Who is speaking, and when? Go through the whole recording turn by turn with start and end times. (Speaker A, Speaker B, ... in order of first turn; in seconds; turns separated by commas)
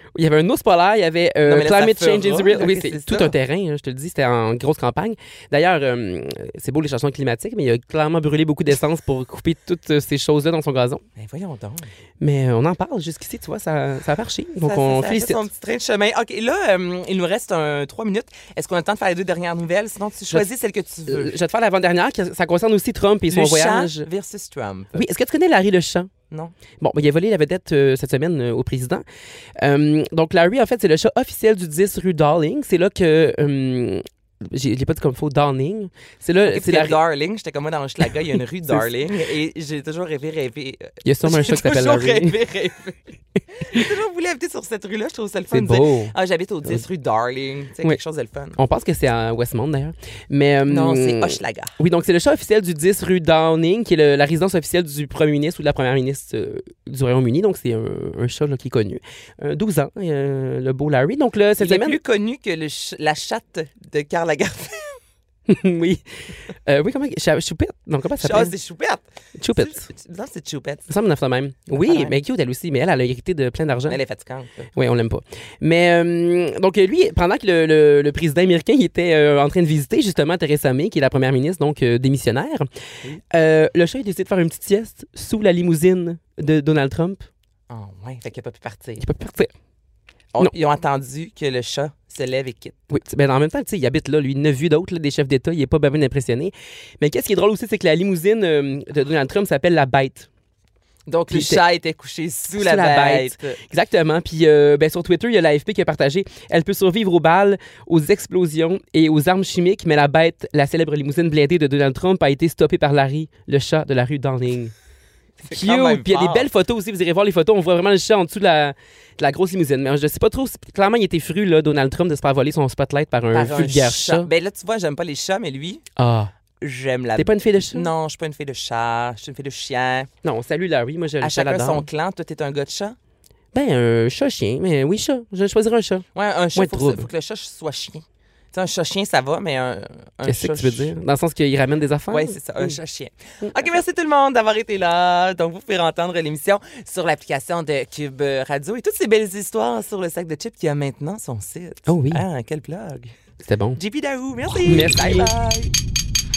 Speaker A: 0.1-11.0, Speaker B: 1.4-3.3, Speaker B: 11.2-11.9, Speaker A: 12.2-15.4, Speaker B: 14.6-21.3, Speaker A: 21.1-24.1, Speaker B: 23.3-25.0, Speaker A: 24.9-26.1, Speaker A: 26.8-29.0, Speaker A: 29.6-37.0, Speaker B: 36.5-43.0, Speaker A: 41.0-42.4, Speaker B: 43.6-48.6, Speaker A: 45.5-46.1, Speaker A: 48.6-62.0, Speaker B: 50.7-51.7, Speaker B: 61.6-65.0, Speaker A: 65.5-68.5, Speaker B: 68.2-69.0, Speaker A: 69.4-69.8, Speaker B: 69.5-70.9, Speaker A: 70.9-74.0, Speaker B: 71.7-72.2, Speaker B: 73.9-74.7, Speaker A: 74.8-82.7, Speaker A: 83.3-87.2, Speaker B: 87.7-89.0, Speaker A: 89.0-89.5, Speaker B: 90.3-92.8, Speaker A: 92.9-100.3, Speaker B: 101.1-103.6, Speaker A: 101.3-101.6, Speaker A: 102.5-114.7, Speaker B: 115.4-116.5, Speaker A: 115.5-124.3, Speaker B: 123.3-125.8, Speaker A: 126.0-126.3, Speaker B: 126.6-130.1, Speaker A: 127.2-127.9, Speaker A: 130.2-131.8, Speaker B: 131.2-133.0, Speaker A: 133.5-137.1, Speaker B: 136.1-140.9, Speaker A: 140.3-142.8, Speaker B: 142.1-153.1, Speaker A: 151.9-152.2, Speaker A: 153.4-153.8, Speaker B: 153.8-155.7, Speaker A: 154.6-155.3